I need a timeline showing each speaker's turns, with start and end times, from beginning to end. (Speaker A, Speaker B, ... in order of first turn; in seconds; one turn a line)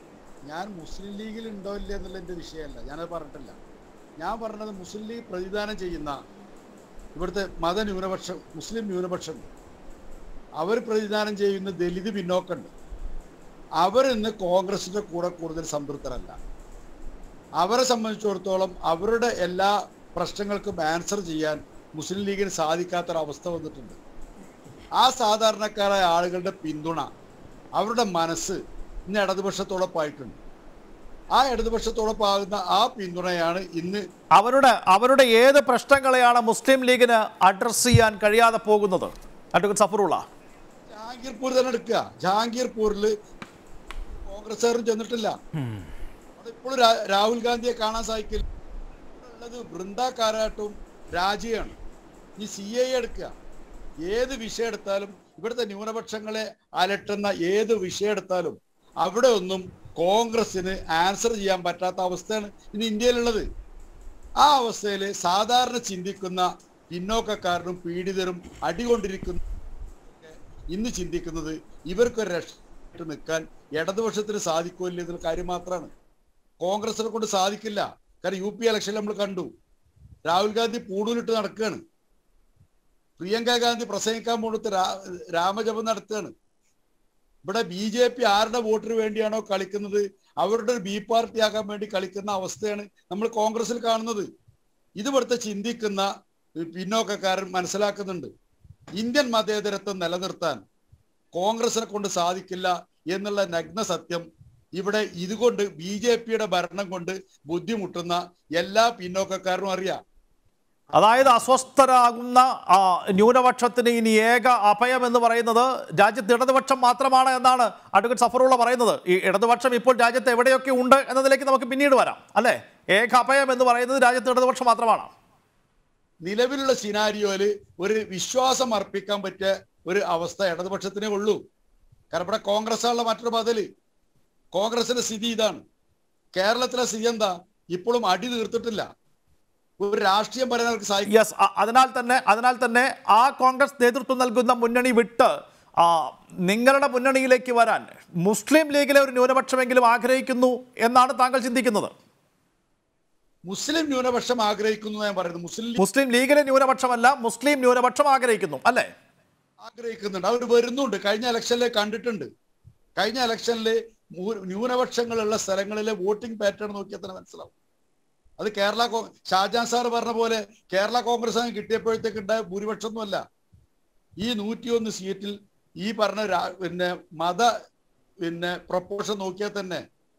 Speaker A: 0.5-3.5
Speaker A: 4.2-6.2
Speaker A: 7.2-9.5
Speaker A: 10.6-12.7
Speaker A: 13.8-16.4
Speaker A: 17.6-24.0
Speaker A: 25.0-27.1
Speaker A: 27.8-30.4
Speaker A: 31.3-34.0
Speaker B: 34.4-40.2
Speaker A: 40.9-43.1
Speaker A: 44.2-45.3
Speaker A: 46.4-48.4
Speaker A: 49.2-51.7
Speaker A: 52.4-53.3
Speaker A: 54.0-63.4
Speaker A: 64.4-69.4
Speaker A: 70.1-75.9
Speaker A: 76.6-79.5
Speaker A: 80.2-81.8
Speaker A: 83.2-86.3
Speaker A: 87.4-94.2
Speaker A: 95.0-96.1
Speaker A: 96.6-98.3
Speaker A: 99.0-100.6
Speaker A: 101.3-104.2
Speaker A: 104.8-110.0
Speaker B: 111.0-125.1
Speaker A: 126.2-131.4
Speaker A: 132.1-133.6
Speaker A: 134.5-135.6
Speaker A: 136.3-138.8
Speaker A: 139.8-141.1
Speaker B: 141.1-151.9
Speaker A: 153.5-155.8
Speaker B: 155.8-158.9
Speaker A: 159.6-162.2
Speaker A: 163.0-167.5
Speaker A: 168.4-173.2
Speaker A: 174.2-177.5
Speaker A: 178.2-179.8